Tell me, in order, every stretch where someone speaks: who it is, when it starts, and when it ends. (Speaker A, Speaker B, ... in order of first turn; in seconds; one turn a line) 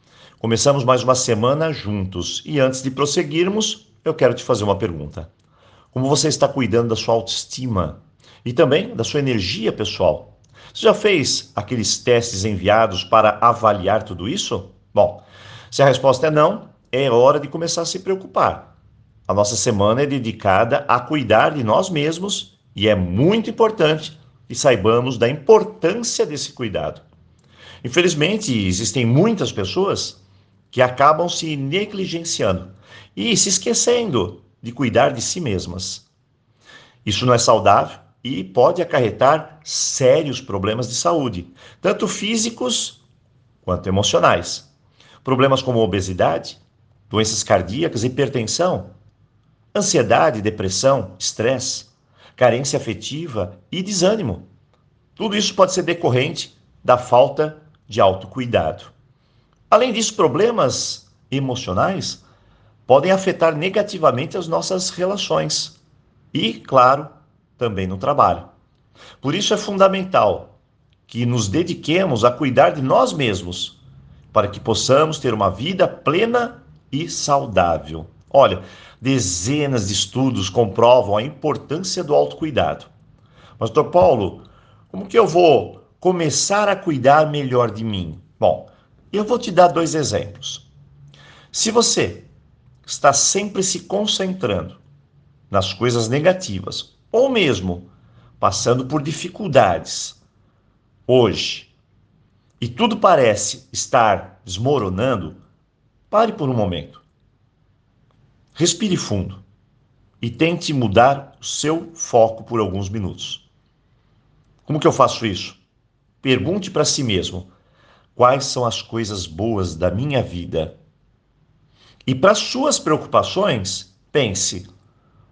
Speaker A: 0.4-5.3
Speaker A: 5.9-18.7
Speaker A: 19.3-27.0
Speaker A: 27.8-30.2
Speaker A: 30.7-36.1
Speaker A: 37.0-43.0
Speaker A: 43.6-44.7
Speaker A: 45.2-46.6
Speaker A: 47.1-48.9
Speaker A: 49.7-54.4
Speaker A: 55.2-58.9
Speaker A: 59.7-62.2
Speaker A: 62.9-65.8
Speaker A: 66.3-68.5
Speaker A: 69.2-70.5
Speaker A: 71.1-73.8
Speaker A: 74.3-82.9
Speaker A: 83.6-90.7
Speaker A: 91.5-92.3
Speaker A: 92.8-94.8
Speaker A: 95.5-97.9
Speaker A: 98.4-100.2
Speaker A: 101.1-101.7
Speaker A: 102.6-105.4
Speaker A: 106.1-107.0
Speaker A: 108.5-109.4
Speaker A: 110.2-113.4
Speaker A: 114.6-115.6
Speaker A: 116.2-117.5
Speaker A: 118.1-120.8
Speaker A: 122.0-124.7